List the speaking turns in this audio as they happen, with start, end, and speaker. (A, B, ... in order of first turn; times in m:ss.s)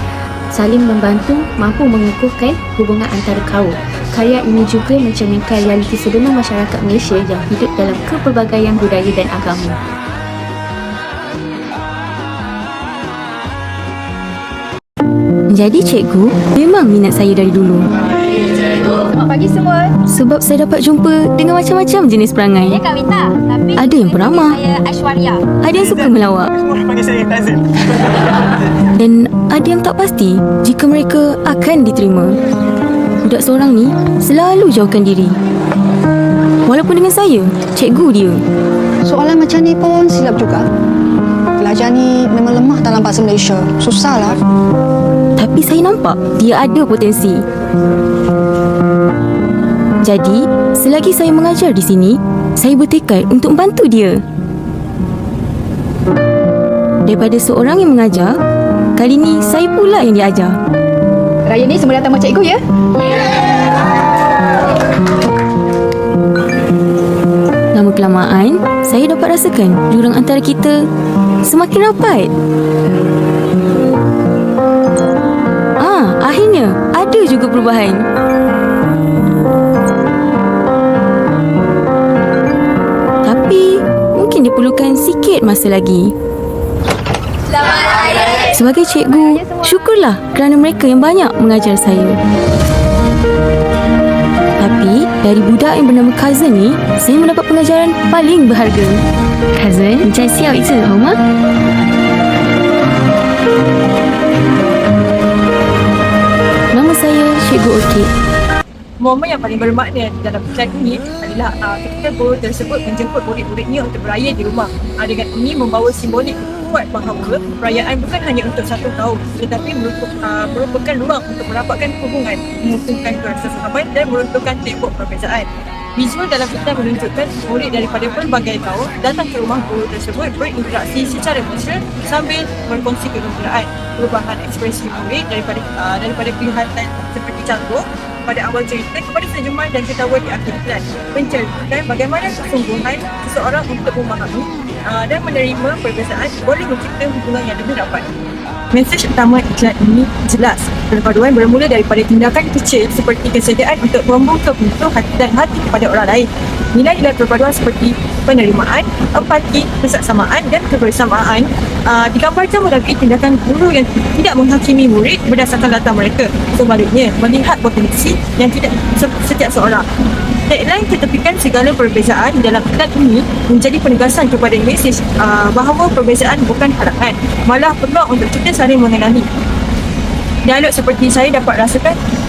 0:00.5-0:09.8 A
0:15.5-0:17.9 B
0:19.1-0:19.9 C
0:20.0-0:22.8 B
0:22.7-0:25.5 C
0:23.7-0:24.6 B
0:25.5-0:26.5 B
0:28.9-0:32.4 B
0:33.2-0:35.4 B
0:36.6-0:38.4 B
0:39.0-0:40.7 D
0:41.6-0:44.4 D
0:45.4-0:47.4 B
0:50.0-0:54.2 B
0:57.0-0:58.4 B
0:59.0-1:00.6 B
1:01.4-1:03.2 C
1:07.7-1:10.8 B
1:11.4-1:12.3 B
1:15.8-1:18.0 B
1:23.2-1:26.1 B
1:28.4-1:32.2 B
1:34.6-1:39.0 B
1:39.5-1:41.2 B
1:46.7-1:48.1 B
1:49.0-2:28.0 E
2:28.7-2:49.8 E
2:50.5-2:59.3 E
3:00.4-3:02.0 E